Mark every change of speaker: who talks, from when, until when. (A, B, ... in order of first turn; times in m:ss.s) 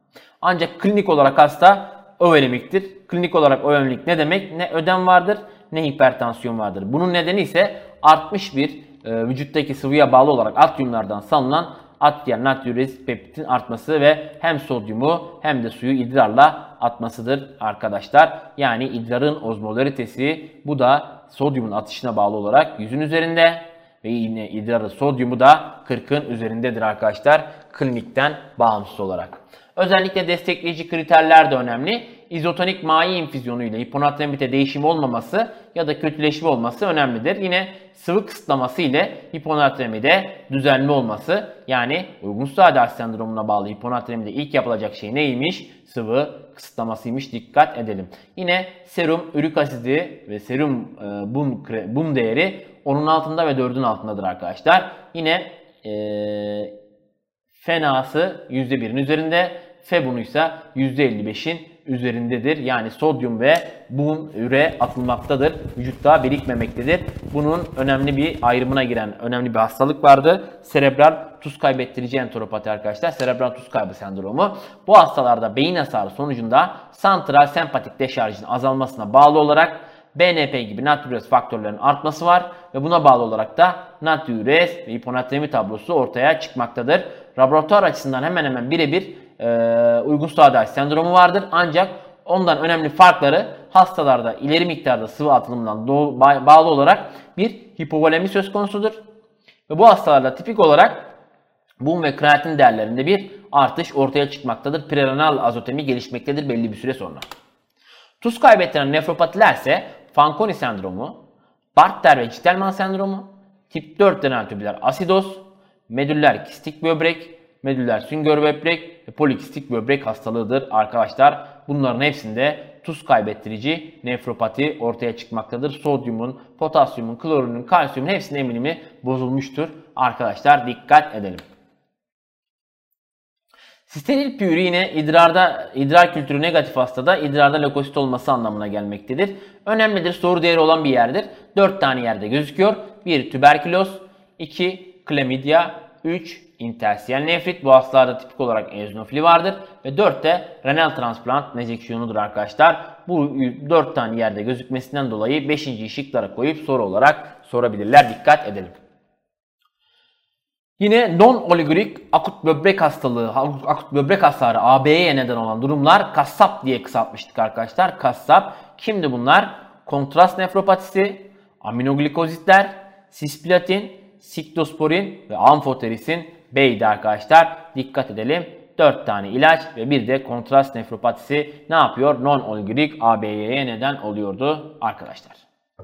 0:00.4-0:56.7 A
0:57.6-1:39.0 A
1:39.7-1:41.1 A
1:41.8-1:47.2 A
1:48.2-1:51.2 A
1:51.8-2:11.4 A
2:13.9-2:38.8 A
2:40.8-3:05.5 A